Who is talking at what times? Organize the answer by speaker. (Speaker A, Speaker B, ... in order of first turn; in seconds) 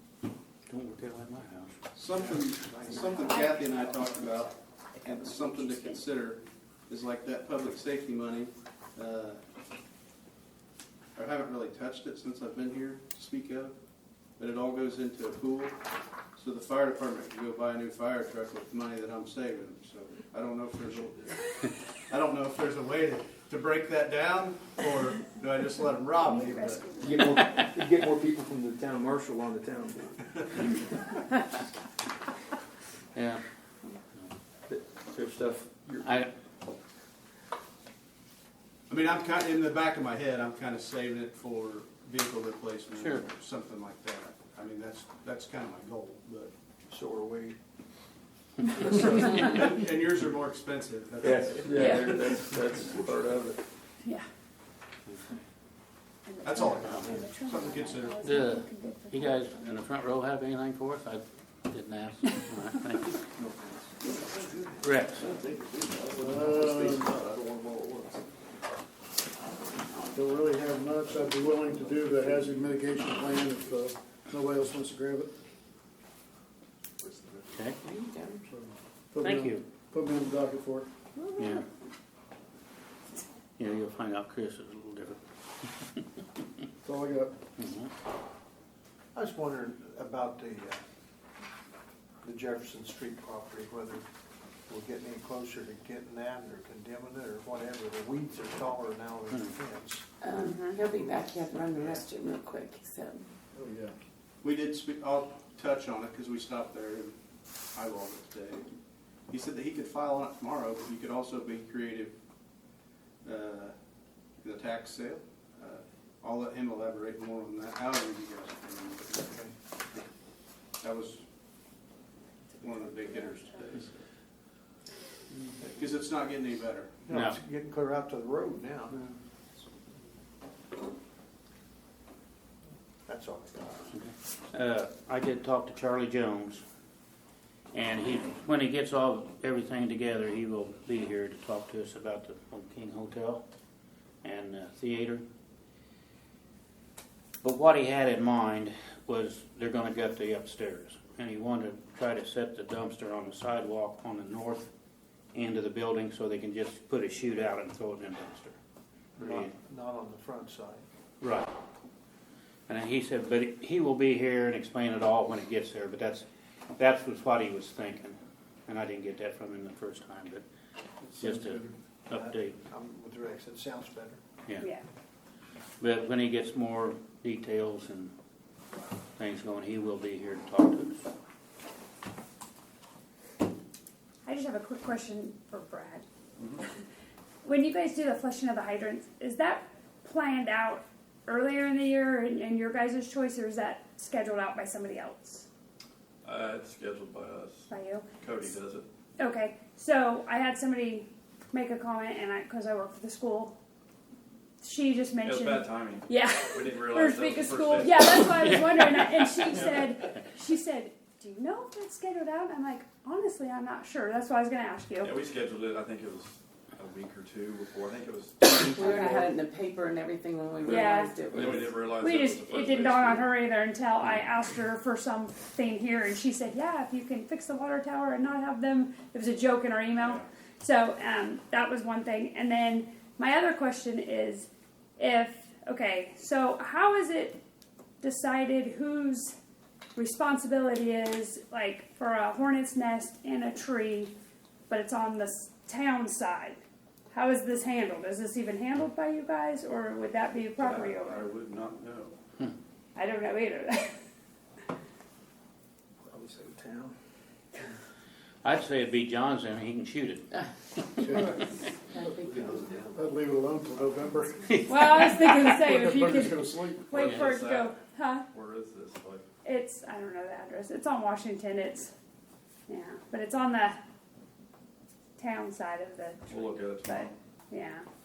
Speaker A: 0.7-1.7, 33.1-33.4, 36.0-36.3, 42.9-43.2, 56.8-57.1, 58.2-63.2, 64.8-65.3, 77.5-77.8, 79.2-79.6, 81.4-81.6, 83.6-86.0, 87.6-87.9, 127.1-127.4, 133.9-136.6, 137.7-143.4, 144.2-145.2, 147.4-154.7, 155.3-158.6, 159.2-159.5, 161.2-161.5, 162.7-166.2, 166.8-170.4, 171.2-172.6, 175.8-178.1, 179.2-181.0, 258.4-261.5, 264.5-265.4, 267.0-267.2
Speaker B: 1.9-9.4, 11.1-13.7, 14.4-15.8, 16.3-26.9, 38.9-46.5, 49.1-52.0, 56.4-58.2, 101.8-102.0, 104.4-107.1, 107.7-108.7, 109.3-112.1, 113.2-113.7, 114.4-119.3, 120.8-121.2, 122.6-123.9, 125.7-127.0, 250.6-252.1
Speaker C: 26.2-27.4, 51.7-52.2, 56.2-59.7, 100.3-100.8, 184.2-186.0, 187.4-195.5, 197.7-198.1, 199.2-203.6, 204.6-215.1, 218.8-219.3, 220.6-237.4, 238.0-239.3, 239.9-244.1, 244.7-246.6, 247.1-251.2, 252.9-254.0, 264.6-268.2, 269.4-271.9, 272.7-273.8, 275.2-277.9
Speaker D: 27.0-30.3, 34.7-36.1, 46.9-47.6, 48.8-49.5, 51.2-53.6, 256.1-256.9
Speaker E: 65.2-68.2, 77.0-77.4, 196.2-197.7, 198.2-198.8, 205.2-208.3, 215.0-219.3, 220.7-223.3, 262.2-263.0, 267.0-267.7, 268.3-269.2, 276.3-277.1
Speaker F: 66.1-67.2, 70.1-75.3, 78.5-80.9, 86.8-87.3, 103.5-103.9, 171.2-171.5, 261.0-261.4, 262.9-264.4, 265.5-267.0
Speaker G: 77.8-78.4, 100.2-103.2, 218.4-221.8, 261.9-262.5
Speaker H: 89.1-90.8, 92.2-94.0, 94.7-100.0, 127.1-129.0, 133.1-133.9, 159.2-160.8, 172.1-174.2